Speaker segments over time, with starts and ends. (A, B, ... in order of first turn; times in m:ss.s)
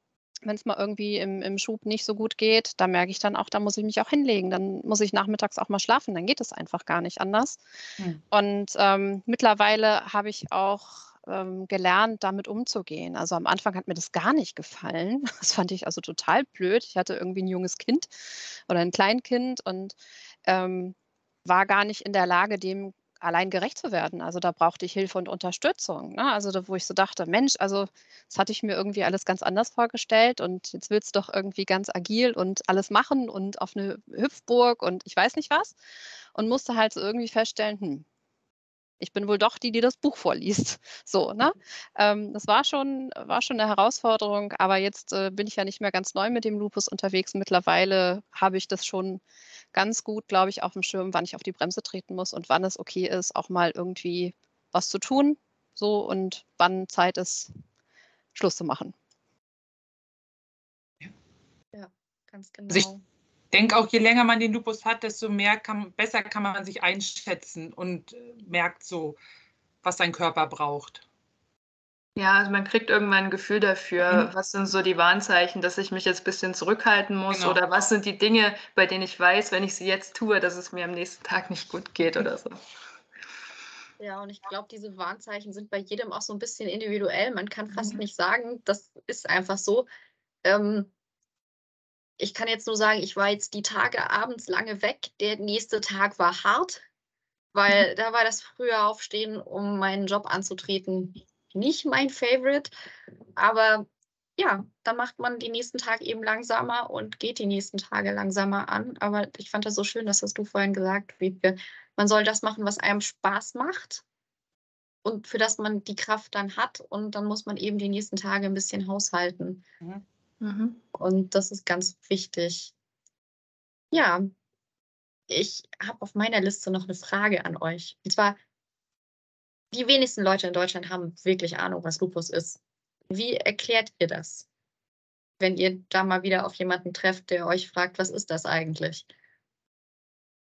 0:00.4-0:07.6 A
0:08.3-0:18.1 A
0:18.7-0:35.7 A
0:36.3-0:38.0 A
0:39.0-0:49.2 A
0:49.7-0:57.5 A
0:58.3-0:58.9 A
1:01.7-1:03.0 B
1:03.5-1:09.2 C
1:09.8-1:11.0 C
1:12.2-1:22.6 D
1:14.0-1:14.3 C
1:17.3-1:17.6 C
1:24.0-1:29.9 B
1:30.4-1:30.9 B
1:32.2-1:36.8 B
1:37.5-1:42.7 B
1:43.4-1:43.8 B
1:44.4-1:54.0 B
1:55.0-1:59.6 B
2:00.4-2:00.8 D
2:00.9-2:02.7 B
2:03.9-2:04.3 B
2:05.3-2:08.4 B
2:09.7-2:14.4 B
2:15.4-2:19.1 B